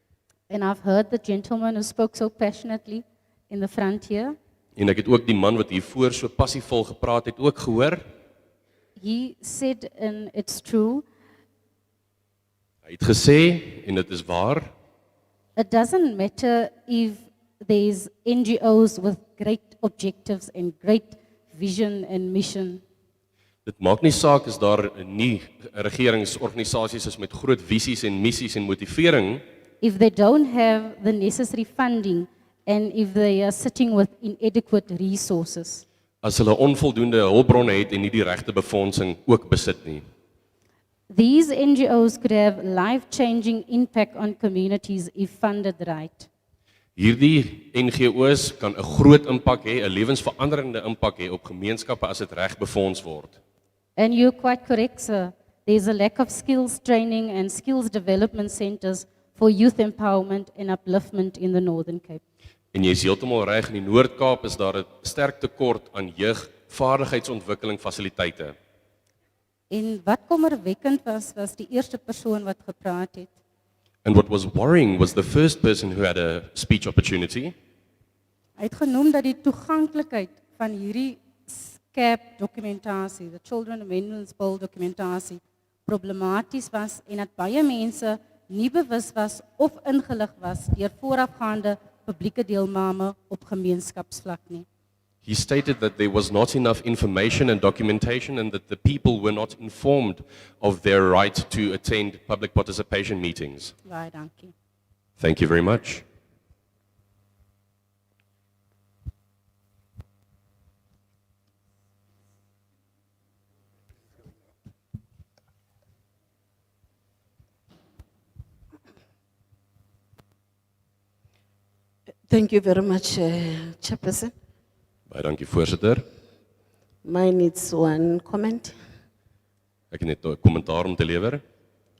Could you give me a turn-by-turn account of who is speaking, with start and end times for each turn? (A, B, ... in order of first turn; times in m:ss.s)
0:00.5-0:04.4 A
0:04.8-0:08.0 B
0:09.0-0:11.0 A
0:12.8-0:14.7 B
0:15.6-0:22.8 A
0:23.6-0:29.4 B
0:29.8-0:35.8 A
0:36.2-0:40.0 B
0:41.1-0:46.3 A
0:47.0-0:53.4 B
0:54.0-1:02.2 A
1:02.7-1:08.5 B
1:09.7-1:13.3 A
1:14.0-1:17.5 B
1:18.6-1:34.6 A
1:35.2-1:43.7 B
1:43.8-1:44.5 A
1:45.2-1:46.0 B
2:02.3-2:04.3 C
2:05.1-2:06.0 B
2:07.0-2:08.7 C
2:09.9-2:11.4 B